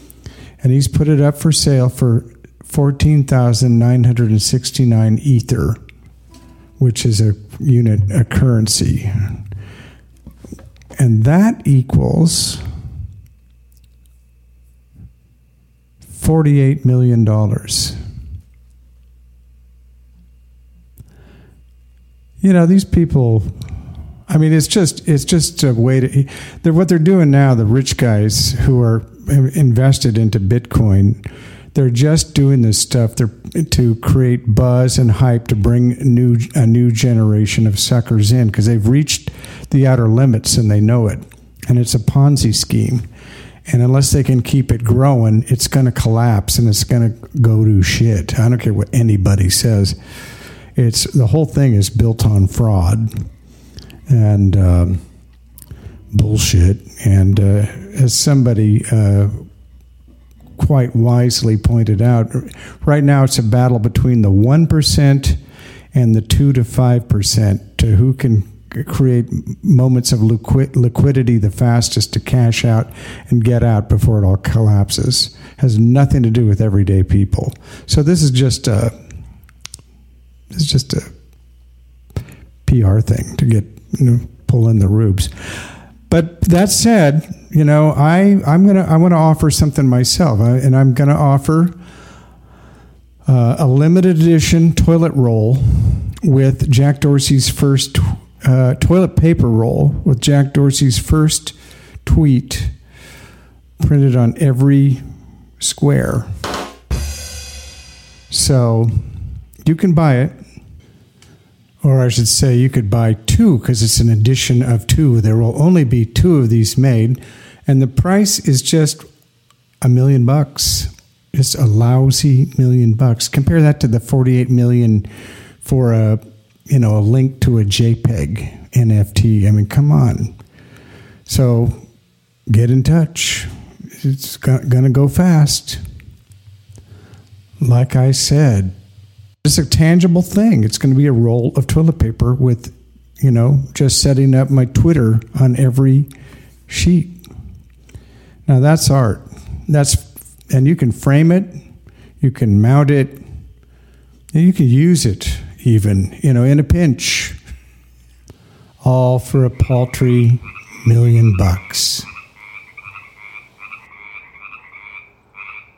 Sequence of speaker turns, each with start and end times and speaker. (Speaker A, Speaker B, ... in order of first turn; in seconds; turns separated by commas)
Speaker A: 0.6-5.8, Speaker A: 6.8-9.4, Speaker A: 10.9-12.6, Speaker A: 16.1-18.0, Speaker A: 22.4-23.5, Speaker A: 24.3-43.0, Speaker A: 43.7-50.0, Speaker A: 50.7-53.2, Speaker A: 54.1-55.0, Speaker A: 56.1-59.5, Speaker A: 60.6-65.4, Speaker A: 65.9-78.9, Speaker A: 80.5-81.1, Speaker A: 82.6-85.3, Speaker A: 86.1-91.8, Speaker A: 93.2-102.7, Speaker A: 103.8-105.0, Speaker A: 105.6-106.3, Speaker A: 108.3-110.3, Speaker A: 111.8-119.0, Speaker A: 119.8-125.1, Speaker A: 125.6-130.3, Speaker A: 131.2-131.8, Speaker A: 132.5-135.8, Speaker A: 137.6-138.7, Speaker A: 139.4-146.1, Speaker A: 146.7-147.1, Speaker A: 148.4-151.6, Speaker A: 152.2-153.2, Speaker A: 154.3-157.4, Speaker A: 158.8-162.1